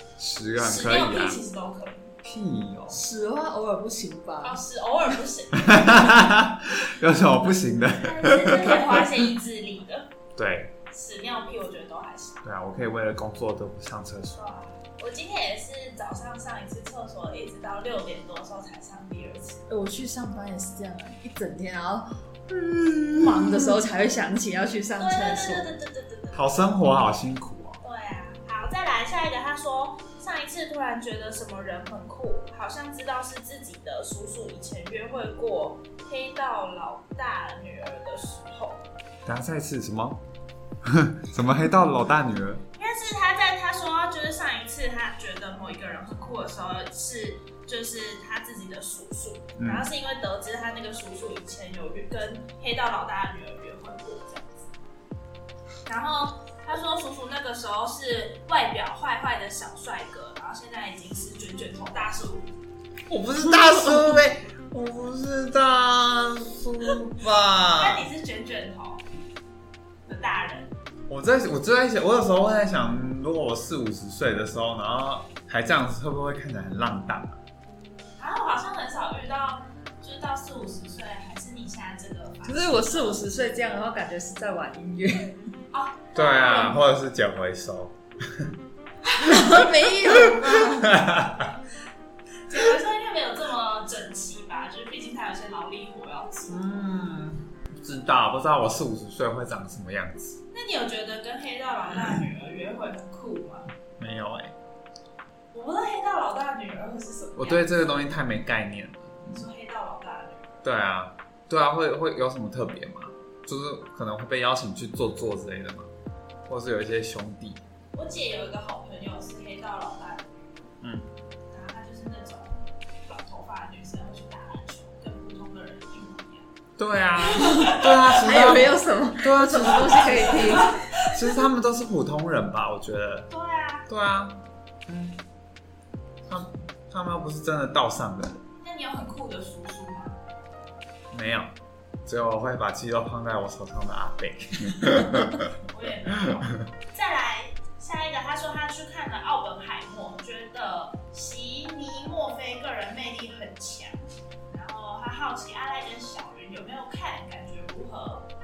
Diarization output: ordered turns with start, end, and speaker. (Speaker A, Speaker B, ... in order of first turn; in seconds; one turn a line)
Speaker A: 0.2-1.4
Speaker B: 0.6-2.1
Speaker A: 2.2-3.0
Speaker C: 2.9-4.6
Speaker B: 4.4-6.3
Speaker A: 5.6-9.0
Speaker B: 8.0-10.1
Speaker A: 10.4-10.7
Speaker B: 10.9-12.4
Speaker A: 12.4-14.4
Speaker B: 14.3-19.6
Speaker C: 19.7-22.2
Speaker A: 22.5-23.7
Speaker C: 23.0-25.7
Speaker B: 25.0-26.5
Speaker A: 26.3-27.8
Speaker B: 27.8-38.8
Speaker A: 39.3-40.2
Speaker A: 40.8-42.6
Speaker B: 42.8-54.7
Speaker A: 49.6-49.9
Speaker B: 55.9-62.5
Speaker A: 63.1-68.1
Speaker C: 63.4-64.2
Speaker B: 67.7-69.0
Speaker B: 70.1-70.7
Speaker A: 71.1-77.4
Speaker B: 78.2-83.2
Speaker C: 82.5-85.4
Speaker B: 85.7-86.8
Speaker A: 86.1-88.5
Speaker B: 89.0-89.7
Speaker C: 89.2-90.9
Speaker A: 90.1-91.5
Speaker B: 92.5-96.8
Speaker A: 96.5-100.4
Speaker B: 100.5-103.7
Speaker A: 104.0-104.5
Speaker B: 105.5-108.0
Speaker A: 107.4-109.4
Speaker B: 109.3-110.6
Speaker A: 110.6-115.9
Speaker A: 116.5-117.6
Speaker B: 117.9-120.5
Speaker A: 120.8-121.1
Speaker B: 121.5-126.5
Speaker A: 126.8-133.3
Speaker B: 127.2-128.1
Speaker C: 127.4-130.8
Speaker B: 129.8-131.2
Speaker B: 133.3-133.9
Speaker A: 133.9-135.2
Speaker A: 136.3-138.4
Speaker B: 138.6-140.2
Speaker A: 141.1-141.5
Speaker A: 142.1-145.5
Speaker B: 145.7-158.3